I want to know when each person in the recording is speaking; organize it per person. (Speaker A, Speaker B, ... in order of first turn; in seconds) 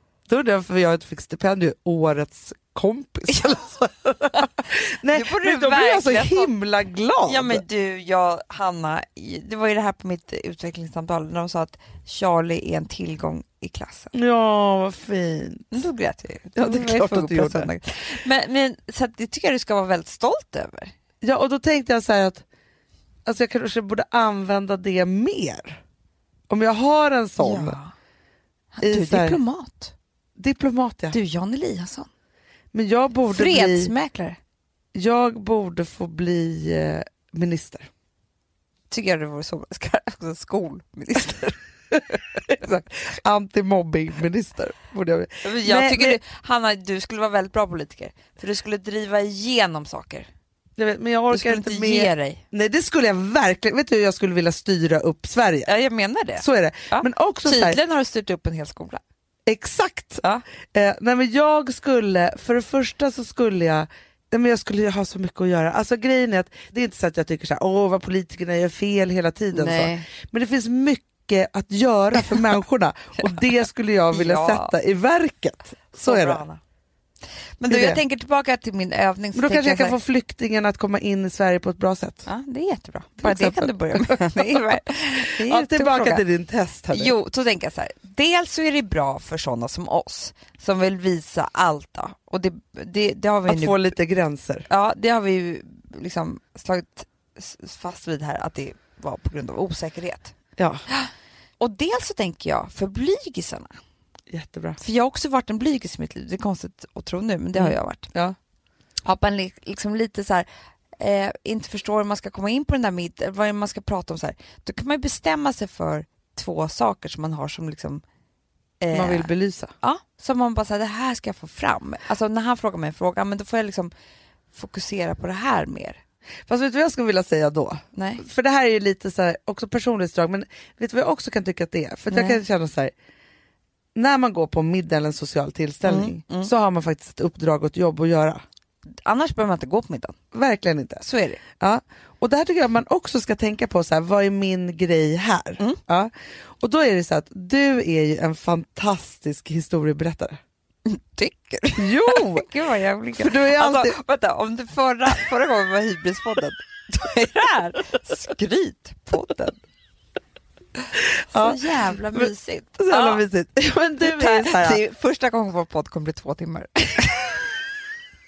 Speaker A: 0.3-7.6, 14.1-15.8, 16.5-17.7, 21.2-22.4, 23.2-25.8, 26.5-27.8, 28.8-29.4, 30.4-31.2, 32.7-33.9, 34.9-37.9, 42.5-46.2, 50.8-55.7, 56.4-57.8, 59.5-76.4, 77.7-78.0, 79.3-82.3, 83.2-84.6, 85.2-87.1, 93.5-94.7, 100.6-100.8, 104.3-104.8, 107.5-108.3, 118.9-119.7, 126.5-132.9, 133.9-138.4, 140.3-141.0, 141.6-150.4, 151.8-152.5, 153.2-153.9, 161.1-161.6, 162.1-164.8
Speaker B: 5.1-6.5, 7.2-14.1, 15.7-20.9, 27.4-27.9, 28.7-29.9, 31.1-32.1, 33.3-34.4, 38.9-41.6, 45.4-50.3, 51.3-52.4, 55.6-59.0, 69.5-70.1, 74.1-74.7, 75.9-76.6, 77.6-79.9, 82.2-86.2, 86.9-93.9, 94.7-100.3, 100.9-103.7, 104.8-108.1, 109.0-118.0, 118.8-119.3, 119.8-123.9, 124.5-126.0, 127.9-128.2, 132.1-132.4, 135.8-136.5, 139.0-140.2, 141.0-141.4, 150.8-159.6, 161.3-163.2, 164.0-167.4